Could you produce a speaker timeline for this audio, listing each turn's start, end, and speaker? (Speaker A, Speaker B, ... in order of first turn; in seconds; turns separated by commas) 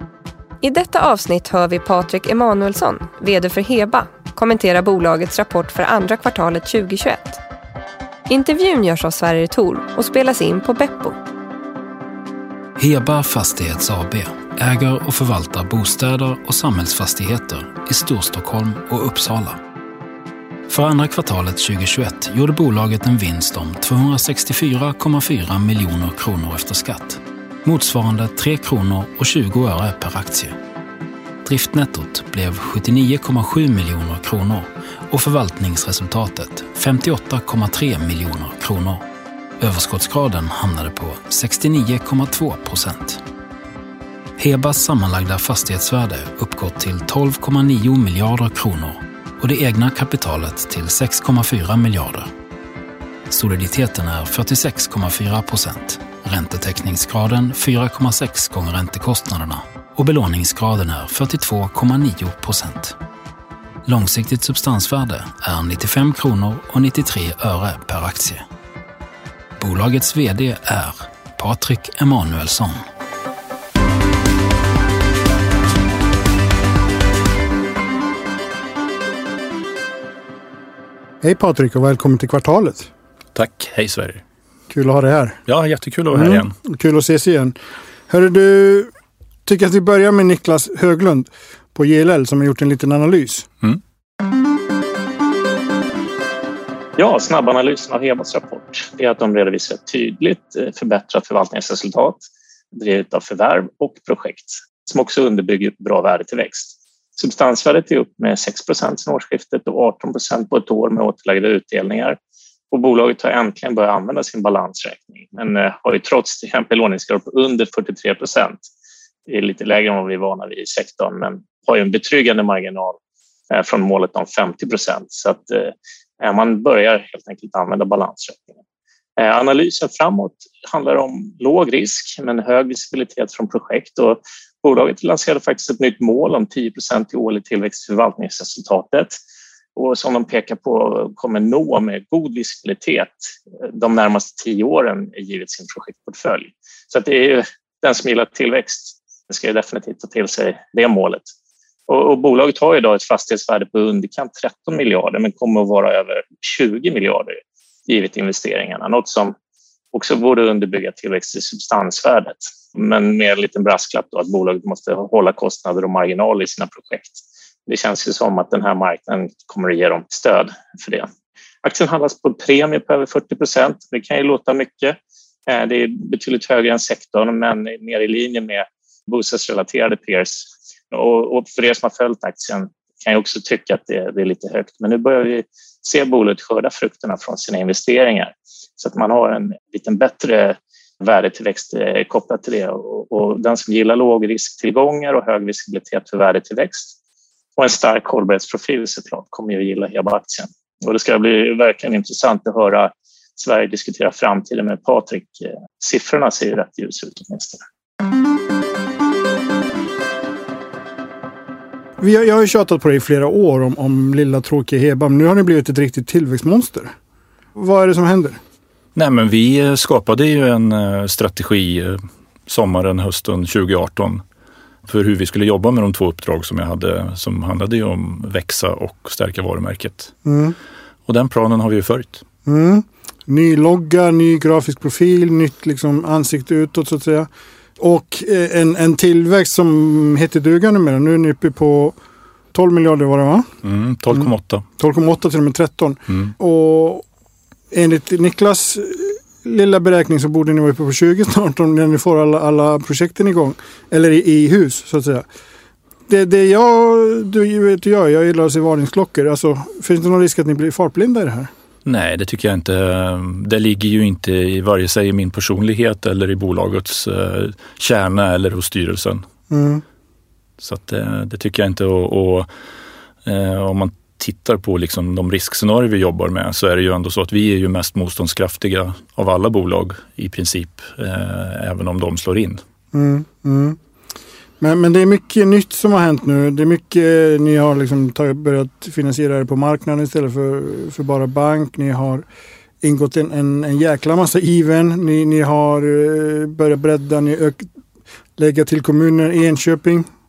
Speaker A: 0.6-7.4, Speaker A: 8.3-11.2, Speaker B: 12.8-19.6, Speaker B: 20.7-30.6, Speaker B: 31.4-39.0, Speaker B: 39.6-43.2, Speaker B: 44.4-52.3, Speaker B: 53.3-63.0, Speaker B: 63.8-68.4, Speaker B: 69.6-72.8, Speaker C: 81.2-82.9, Speaker D: 83.3-84.2, Speaker C: 84.7-85.4, Speaker D: 85.5-86.5, Speaker C: 86.1-87.5, Speaker C: 88.1-88.9, Speaker C: 89.5-93.5, Speaker E: 97.0-112.2, Speaker E: 112.7-118.7, Speaker E: 119.3-123.0, Speaker E: 123.5-128.6, Speaker E: 129.2-139.2, Speaker E: 139.8-151.3, Speaker E: 151.9-159.3, Speaker E: 159.9-171.1, Speaker E: 171.6-196.9, Speaker E: 197.6-207.6, Speaker C: 212.0-216.9, Speaker C: 217.6-218.4, Speaker D: 218.9-224.2, Speaker D: 224.8-230.1, Speaker C: 230.2-230.6, Speaker D: 231.1-232.2, Speaker C: 232.4-241.9, Speaker C: 242.5-243.5, Speaker D: 243.6-244.7, Speaker C: 244.1-247.1, Speaker C: 247.7-255.2, Speaker C: 256.1-261.5, Speaker D: 261.8-269.2, Speaker C: 269.5-269.8, Speaker D: 270.6-272.5, Speaker D: 273.2-282.6, Speaker C: 282.9-283.8, Speaker C: 284.6-292.2, Speaker C: 292.8-297.7, Speaker C: 298.4-300.1